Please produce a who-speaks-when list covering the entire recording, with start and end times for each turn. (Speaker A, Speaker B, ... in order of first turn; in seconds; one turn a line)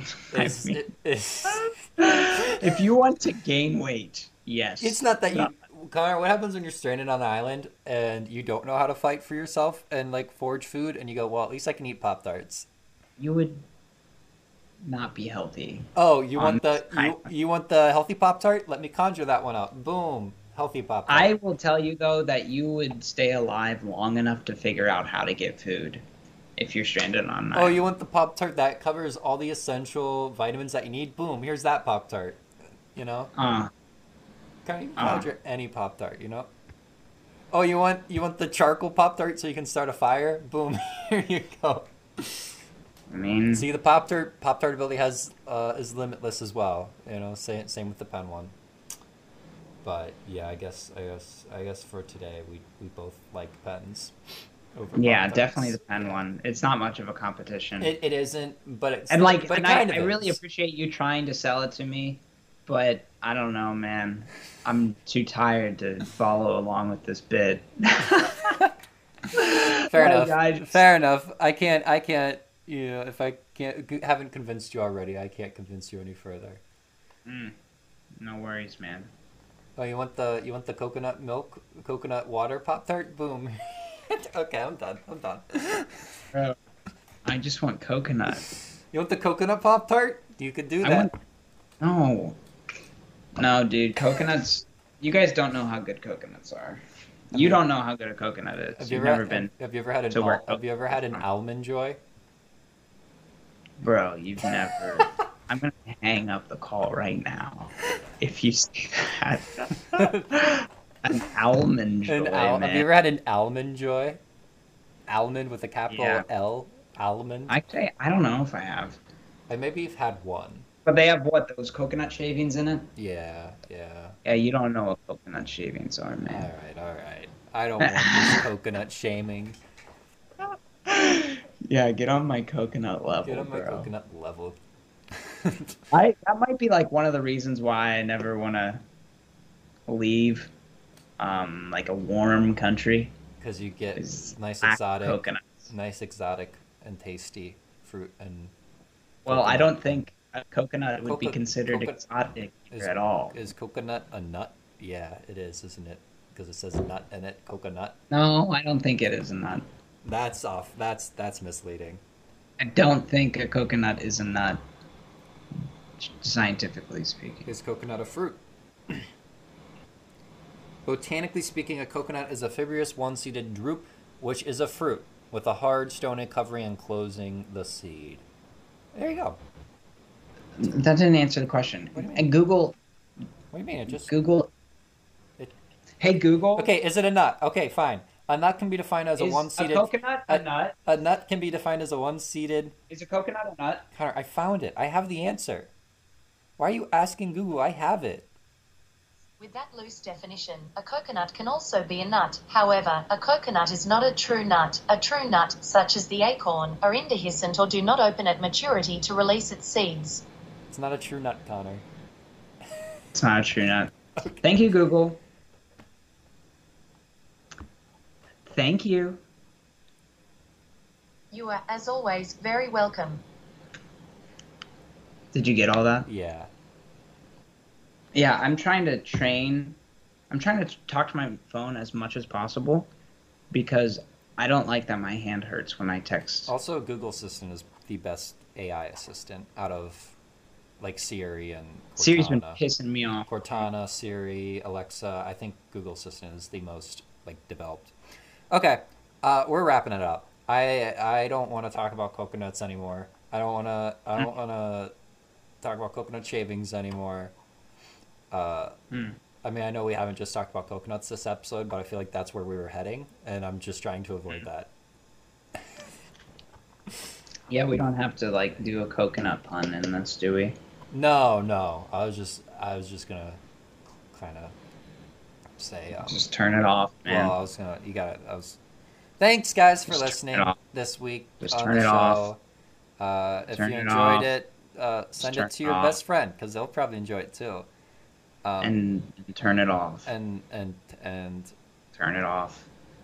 Speaker A: 0.3-0.8
Speaker B: 0.3-1.7
Speaker A: 1.5-5.5
Speaker B: 2.4-2.8
Speaker B: 4.8-12.7
Speaker A: 13.2-13.7
Speaker A: 14.8-17.3
Speaker B: 16.0-21.3
Speaker A: 21.1-26.0
Speaker A: 26.6-27.9
Speaker B: 27.5-32.4
Speaker B: 33.0-33.3
Speaker A: 33.4-33.7
Speaker B: 34.6-36.5
Speaker A: 35.0-35.3
Speaker B: 37.5-42.6
Speaker A: 43.1-43.6
Speaker B: 43.5-48.5
Speaker B: 49.8-54.1
Speaker B: 54.8-56.2
Speaker A: 55.0-57.9
Speaker B: 57.8-60.4
Speaker A: 59.1-68.7
Speaker A: 69.3-70.8
Speaker B: 69.8-76.6
Speaker A: 77.3-77.5
Speaker A: 78.2-79.1
Speaker B: 79.8-86.2
Speaker A: 87.2-88.5
Speaker B: 88.9-91.1
Speaker A: 90.8-91.1
Speaker A: 91.8-92.4
Speaker A: 93.4-99.5
Speaker B: 97.3-97.6
Speaker B: 98.8-102.0
Speaker A: 100.1-101.2
Speaker A: 103.8-112.9
Speaker B: 104.5-105.1
Speaker B: 110.0-110.4
Speaker B: 112.1-114.2
Speaker B: 115.1-117.6
Speaker A: 115.9-116.3
Speaker A: 117.5-119.0
Speaker B: 119.5-120.7
Speaker A: 120.9-122.9
Speaker B: 123.0-124.2
Speaker A: 124.2-126.5
Speaker B: 126.3-129.6
Speaker A: 127.8-128.4
Speaker A: 130.4-133.9
Speaker B: 133.2-134.6
Speaker B: 135.1-135.8
Speaker A: 135.9-138.8
Speaker A: 139.9-140.5
Speaker A: 141.2-143.2
Speaker B: 143.4-148.5
Speaker A: 144.0-145.7
Speaker B: 149.3-150.0
Speaker A: 149.3-153.4
Speaker B: 151.1-152.0
Speaker B: 152.7-158.0
Speaker A: 158.1-159.7
Speaker B: 160.0-162.0
Speaker A: 162.6-164.6
Speaker A: 166.0-167.5
Speaker B: 167.5-169.1
Speaker B: 170.8-178.2
Speaker B: 178.9-179.4
Speaker A: 180.6-182.8
Speaker B: 181.9-182.3
Speaker B: 183.5-184.1
Speaker A: 183.9-184.5
Speaker A: 186.0-186.7
Speaker B: 186.6-192.8
Speaker A: 189.2-190.8
Speaker A: 192.9-193.9
Speaker B: 193.9-195.7
Speaker B: 196.6-198.3
Speaker C: 199.4-210.3
Speaker B: 210.7-211.8
Speaker A: 213.1-215.2
Speaker B: 214.2-214.5
Speaker A: 218.5-219.2
Speaker C: 221.3-223.2
Speaker A: 225.3-226.1
Speaker B: 226.1-226.5
Speaker A: 228.2-229.8
Speaker A: 230.3-232.9
Speaker A: 233.5-236.5
Speaker B: 236.5-240.2
Speaker B: 240.8-242.6
Speaker A: 242.0-243.6
Speaker B: 243.3-247.9
Speaker B: 248.5-254.9
Speaker B: 255.6-257.3
Speaker B: 258.3-258.8
Speaker A: 258.9-259.2
Speaker B: 259.4-264.7
Speaker B: 265.6-265.8
Speaker A: 267.5-270.6
Speaker B: 270.9-273.4
Speaker B: 274.1-274.6
Speaker B: 275.6-276.2
Speaker A: 276.0-277.4
Speaker B: 277.1-278.6
Speaker B: 279.2-282.4
Speaker A: 279.9-280.6
Speaker A: 281.4-282.3
Speaker B: 283.0-287.7
Speaker A: 283.5-284.3
Speaker A: 285.2-286.0
Speaker B: 288.4-288.8
Speaker A: 288.6-290.1
Speaker B: 290.1-291.5
Speaker A: 291.9-292.7